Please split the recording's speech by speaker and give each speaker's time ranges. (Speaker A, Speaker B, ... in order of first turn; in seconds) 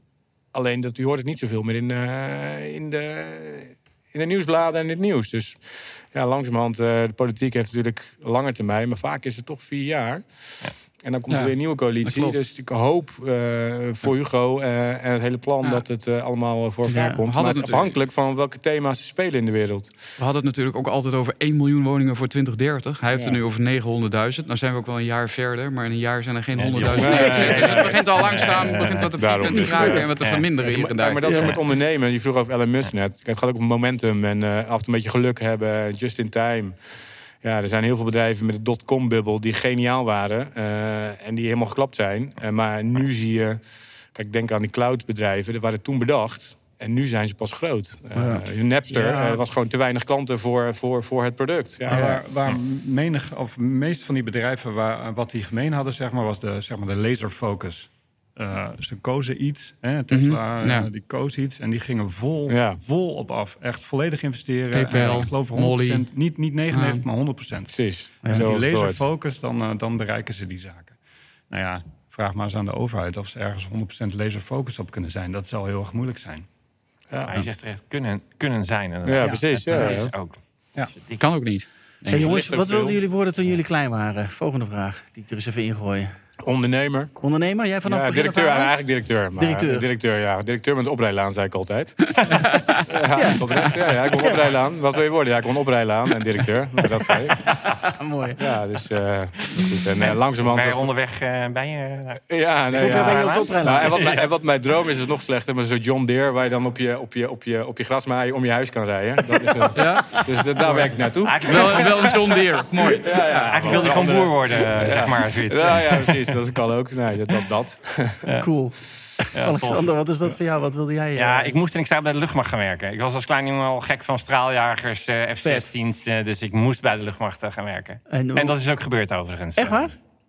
Speaker A: 0.5-19.9, 26.9-27.9, 29.2-52.5, 62.5-62.8, 67.7-69.0, 77.1-77.4, 79.0-80.1, 82.1-83.0, 86.4-87.1, 87.8-97.7, 98.4-100.9, 102.3-111.9, 113.0-118.3
Speaker B: 11.3-12.4, 17.2-18.0, 20.2-31.6, 60.1-60.9, 64.7-66.1, 66.7-67.0, 81.2-82.3, 92.2-92.8, 109.7-110.2, 111.4-113.8
Speaker C: 16.9-17.2, 27.1-27.7, 29.4-30.1, 31.2-31.6, 48.1-48.4, 51.9-52.2, 64.9-65.2, 68.2-68.5, 82.1-86.1, 87.2-88.7, 89.3-89.9, 93.1-93.4, 97.8-98.4, 102.7-104.2, 118.4-121.5, 125.4-125.7, 128.1-128.6, 129.6-129.9
Speaker D: 26.6-29.1, 30.2-30.4, 77.3-81.2, 99.5-104.3, 110.6-112.3, 113.4-116.2, 119.3-119.9, 121.1-129.9
Speaker E: 48.9-49.4, 51.9-71.0, 71.5-76.5